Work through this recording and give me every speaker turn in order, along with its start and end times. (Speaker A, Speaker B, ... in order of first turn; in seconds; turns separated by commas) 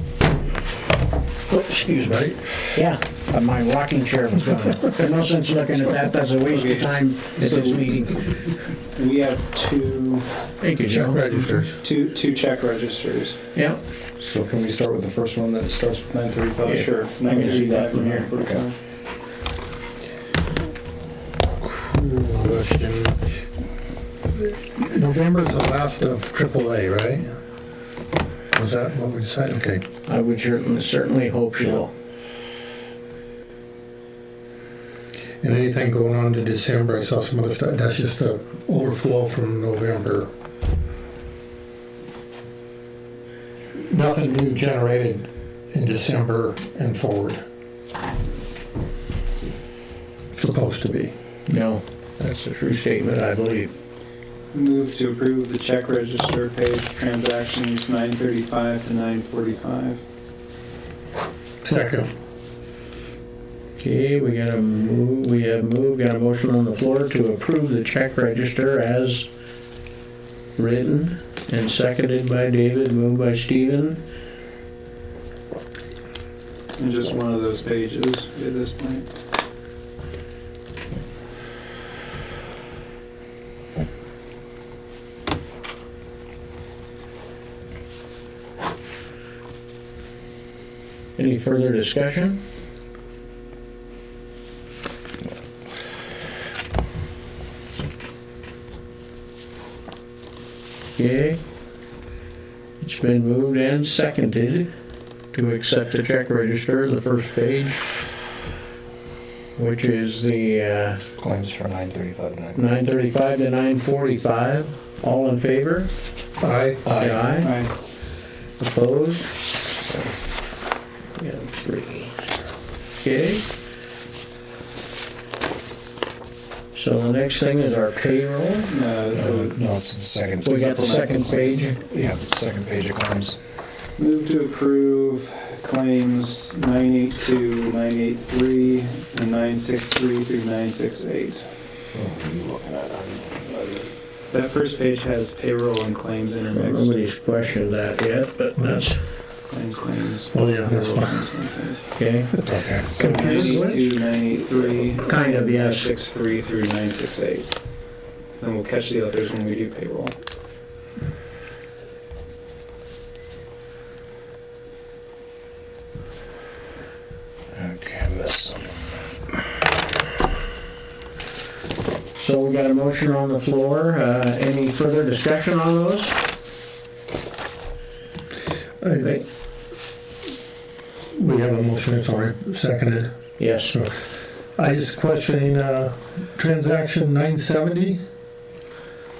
Speaker A: 1.5-8.3, Speaker B: 2.0-2.4, Speaker C: 6.5-7.8, Speaker C: 8.9-10.3, Speaker A: 10.6-11.6, Speaker B: 10.8-11.8, Speaker C: 11.8-13.4, Speaker A: 13.5-13.8, Speaker D: 14.2-17.6, Speaker C: 16.6-18.7, Speaker A: 16.6-18.3, Speaker B: 21.6-23.2, Speaker B: 24.6-27.4, Speaker B: 28.5-29.8, Speaker A: 30.1-31.9, Speaker B: 35.4-40.3, Speaker B: 43.7-47.4, Speaker B: 50.3-51.1, Speaker A: 51.5-53.7, Speaker C: 54.5-60.0, Speaker B: 61.6-62.1, Speaker A: 63.8-69.3, Speaker A: 70.5-74.0, Speaker C: 76.8-79.1, Speaker A: 91.2-92.4, Speaker A: 101.0-101.4, Speaker A: 102.8-104.7, Speaker A: 105.3-107.8, Speaker A: 109.5-111.0, Speaker D: 111.2-112.6, Speaker A: 112.5-115.9, Speaker B: 116.4-116.9, Speaker D: 116.8-117.2, Speaker A: 117.0-117.5, Speaker C: 117.4-117.7, Speaker A: 118.6-119.3, Speaker A: 121.2-122.1, Speaker A: 123.0-123.4, Speaker A: 126.7-128.7, Speaker C: 128.7-129.6, Speaker D: 129.1-133.4, Speaker A: 130.4-131.8, Speaker C: 134.0-141.5, Speaker D: 141.9-143.2, Speaker C: 144.3-147.0, Speaker A: 146.5-149.0, Speaker B: 148.5-148.8, Speaker C: 149.5-151.9, Speaker B: 150.3-151.3, Speaker A: 152.0-152.4, Speaker B: 152.3-153.9, Speaker D: 152.4-152.9, Speaker C: 152.9-157.5, Speaker A: 153.0-153.6, Speaker A: 155.0-155.9, Speaker C: 158.4-160.2, Speaker D: 167.5-168.7, Speaker A: 172.2-176.2, Speaker B: 178.8-179.2, Speaker A: 179.0-179.2, Speaker B: 181.1-183.1, Speaker A: 183.4-183.8, Speaker B: 183.7-188.0